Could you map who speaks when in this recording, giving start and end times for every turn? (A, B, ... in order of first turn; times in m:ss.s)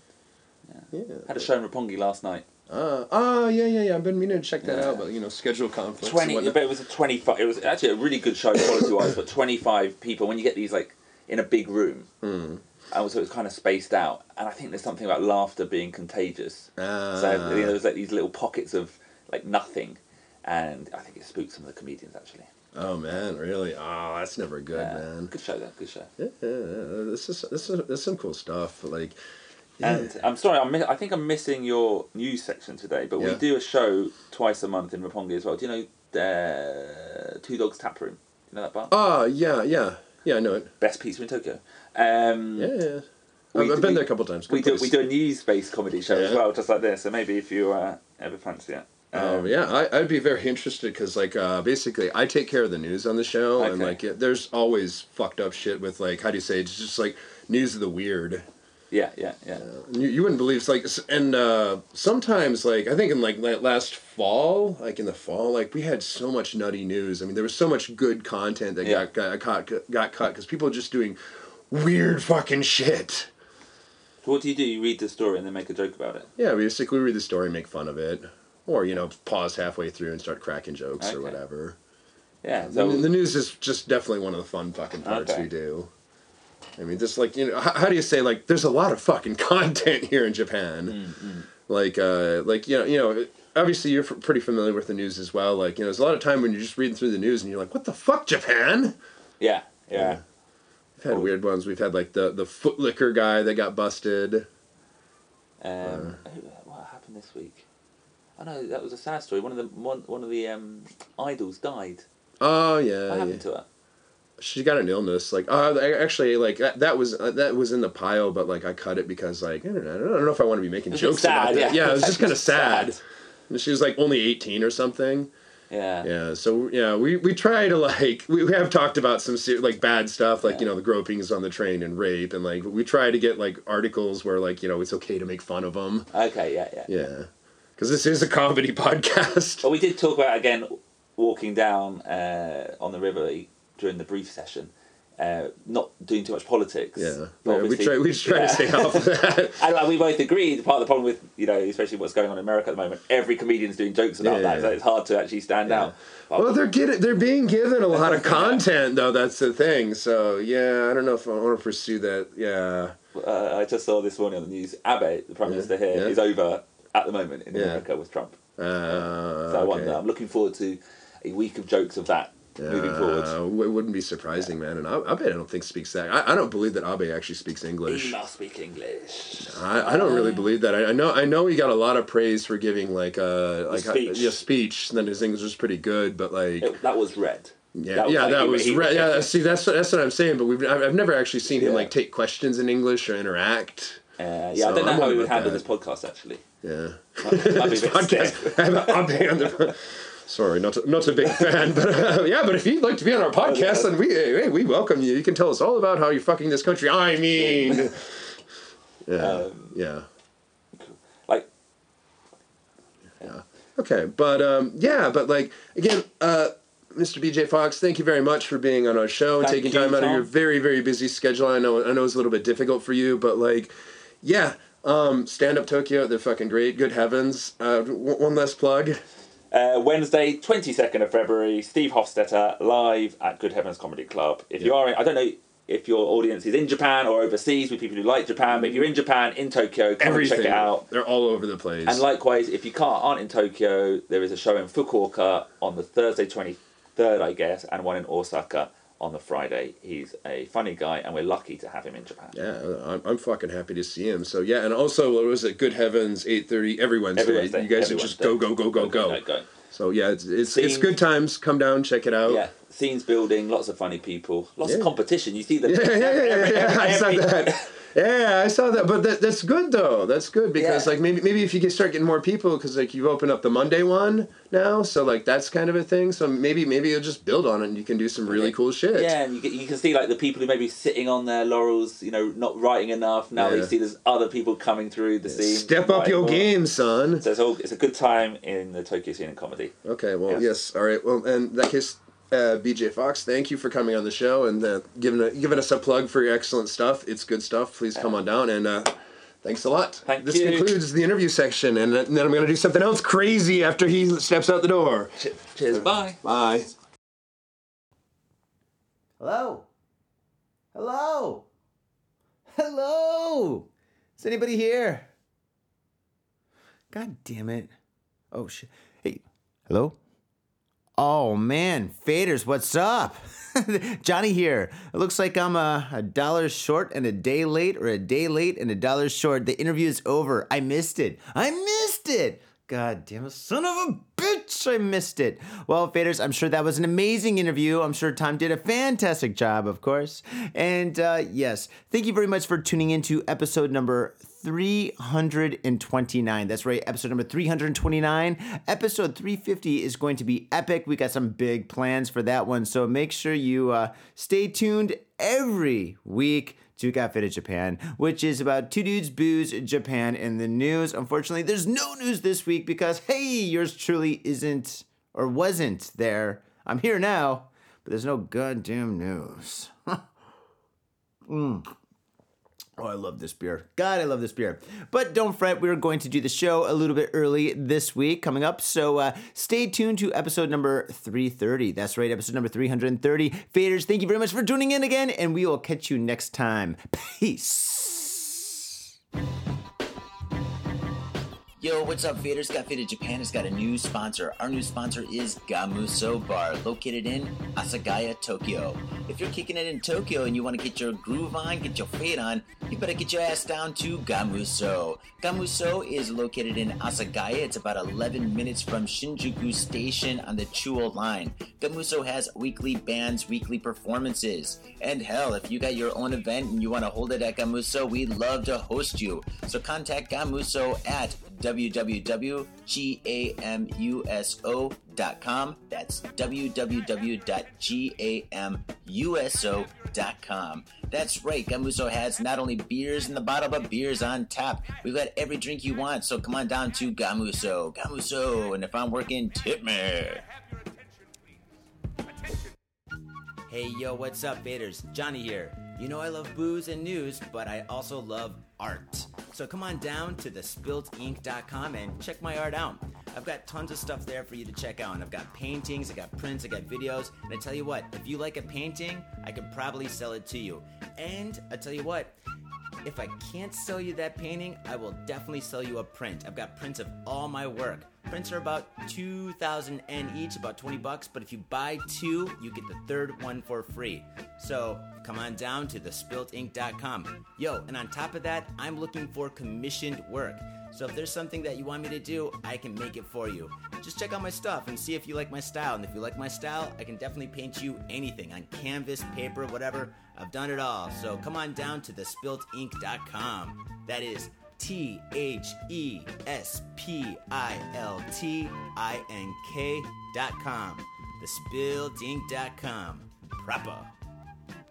0:00.7-0:02.4 A
0:00.9-0:01.5 B
0:02.7-0:06.6 B
0:04.6-0:05.0 A
0:06.0-0:12.1 A
0:12.2-0:12.6 B
0:12.9-0:22.5 A
0:16.8-0:17.8 B
0:22.7-0:25.3 B
0:24.7-0:26.1 A
0:26.2-0:29.2 B
0:29.8-0:30.1 B
0:29.8-0:38.9 A
0:38.9-0:40.7 B
0:40.8-0:42.7 A
0:42.6-0:44.9 B
0:43.5-0:49.5 A
0:46.1-0:46.4 B
0:49.1-0:58.5 B
0:53.6-0:54.0 A
0:58.9-0:59.6 A
0:59.6-1:11.2 B
1:11.7-1:13.3 B
1:14.2-1:16.3 A
1:16.4-1:21.8 B
1:21.0-1:21.4 A
1:22.4-1:23.1 A
1:22.6-1:25.9 B
1:25.0-1:25.5 A
1:26.8-1:31.0 B
1:30.9-1:31.5 A
1:31.6-1:39.0 B
1:39.4-1:40.2 A
1:39.9-1:40.2 B
1:41.0-1:44.5 B
1:41.1-1:41.3 A
1:45.6-1:47.6 A
1:45.8-1:46.2 B
1:48.4-1:52.0 A
1:52.4-1:53.4 B
1:53.1-1:53.6 A
1:54.4-2:05.3 B
2:00.9-2:03.0 A
2:05.7-2:06.1 A
2:06.0-2:16.1 B
2:16.1-2:16.9 A
2:16.9-2:19.6 B
2:19.6-2:36.7 A
2:27.0-2:29.6 B
2:34.2-2:34.8 B
2:35.7-2:43.0 B
2:37.9-2:38.6 A
2:43.1-2:48.4 A
2:45.4-2:46.2 B
2:47.5-2:47.8 B
2:48.6-2:50.0 B
2:48.9-2:53.3 A
2:52.6-2:58.2 B
2:57.9-3:00.5 A
2:59.4-3:06.7 B
3:03.7-3:04.4 A
3:06.6-3:09.3 A
3:07.7-3:14.0 B
3:11.5-3:11.9 A
3:14.2-3:16.4 A
3:14.6-3:15.6 B
3:16.6-3:28.2 B
3:17.2-3:19.7 A
3:21.3-3:21.8 A
3:23.4-3:23.9 A
3:27.4-3:27.8 A
3:29.0-3:30.0 B
3:29.2-3:29.8 A
3:30.8-3:31.5 A
3:33.2-3:49.0 B
3:39.4-3:40.3 A
3:49.5-4:00.8 A
3:58.5-3:58.8 B
4:00.0-4:02.0 B
4:01.8-4:12.4 A
4:12.3-4:19.2 B
4:17.2-4:19.5 A
4:19.7-4:22.4 B
4:20.5-4:21.0 A
4:22.2-4:27.7 A
4:24.6-4:24.9 B
4:25.6-4:39.1 B
4:30.6-4:30.9 A
4:38.3-4:46.5 A
4:43.4-4:43.7 B
4:45.2-4:47.2 B
4:47.2-4:49.7 A
4:49.8-5:05.1 B
5:00.0-5:00.7 A
5:05.2-5:06.2 A
5:05.7-5:06.7 B
5:09.2-5:09.7 C
5:10.7-5:11.5 C
5:12.5-5:13.7 C
5:14.2-5:15.1 C
5:16.9-5:17.7 C
5:18.3-5:20.0 C
5:21.0-6:10.0 C
6:11.3-6:11.7 C
6:12.8-6:28.6 C
6:31.6-7:20.2 D
7:23.5-7:42.2 C
7:42.8-8:23.9 C